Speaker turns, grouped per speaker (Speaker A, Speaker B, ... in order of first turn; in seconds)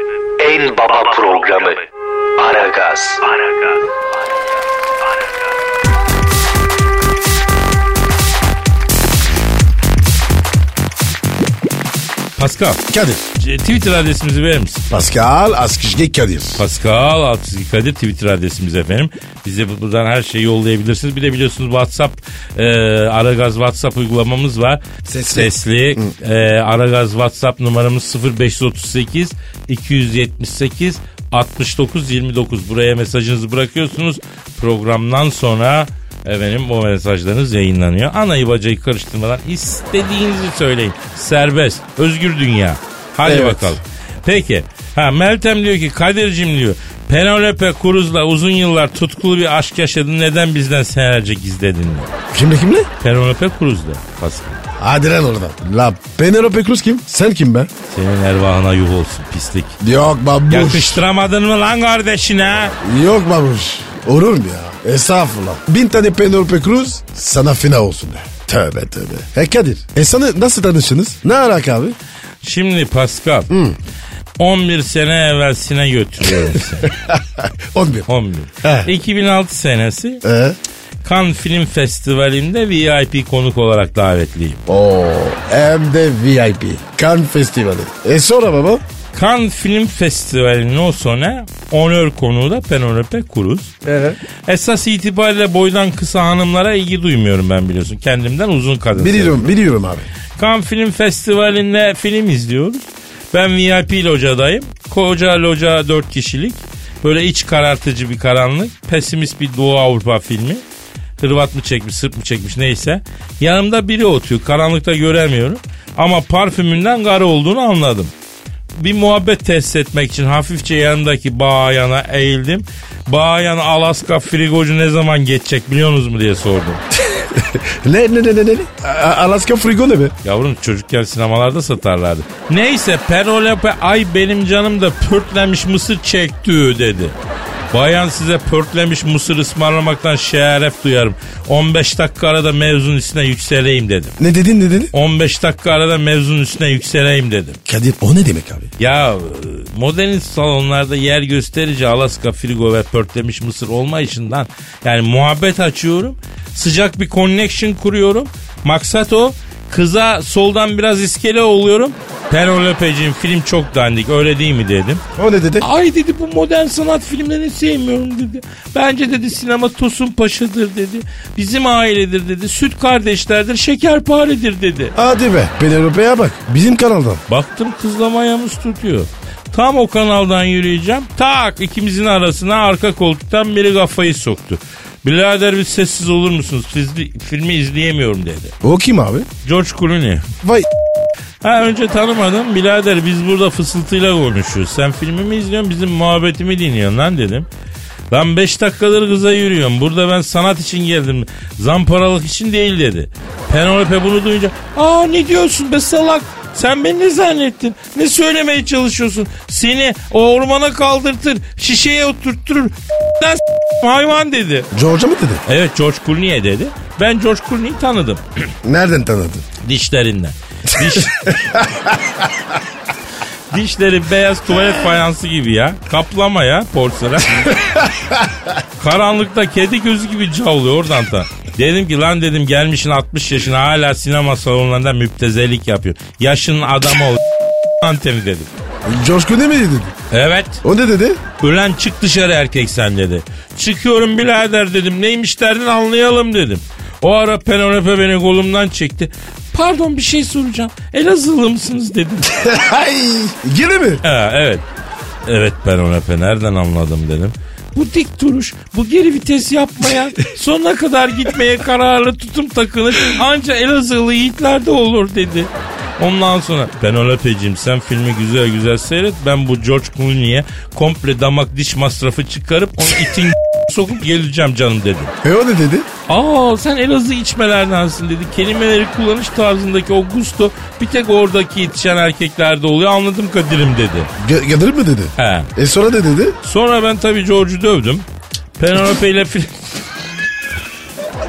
Speaker A: 0.4-3.9
Speaker B: 12.4-12.8, 13.4-14.8, 16.6-52.1, 53.0-54.6, 57.9-59.8, 60.5-62.7, 72.4-73.5, 74.4-76.9, 78.1-80.2, 81.0-84.6, 89.1-93.7, 94.5-99.5, 100.4-110.6, 111.2-118.1, 118.8-126.8, 130.2-137.1, 137.7-144.2, 144.9-147.6, 148.8-165.0, 165.6-174.9, 177.3-188.5, 189.4-190.2, 191.4-197.5, 198.1-214.7, 215.5-218.2, 219.6-221.3, 223.5-227.6, 228.8-237.2, 237.8-238.5, 240.1-240.6, 241.4-252.3, 254.0-254.6, 255.2-275.1, 276.1-284.1, 285.2-285.5, 286.4-288.0, 288.6-289.5
Speaker C: 12.9-13.2, 14.9-16.6, 25.0-26.0, 43.2-43.8, 52.3-52.9, 54.8-57.7, 59.8-61.0, 62.8-72.0, 73.5-73.8, 76.4-78.1, 78.6-78.9, 80.2-80.6, 84.7-88.8, 93.8-94.2, 98.9-100.0, 127.1-130.1, 144.2-144.9, 147.7-148.7, 165.2-165.7, 174.9-177.2, 188.6-189.3, 214.7-215.4, 218.6-219.4, 220.8-222.1, 238.8-239.9, 240.6-241.2, 252.3-254.0, 275.2-275.9, 284.2-286.4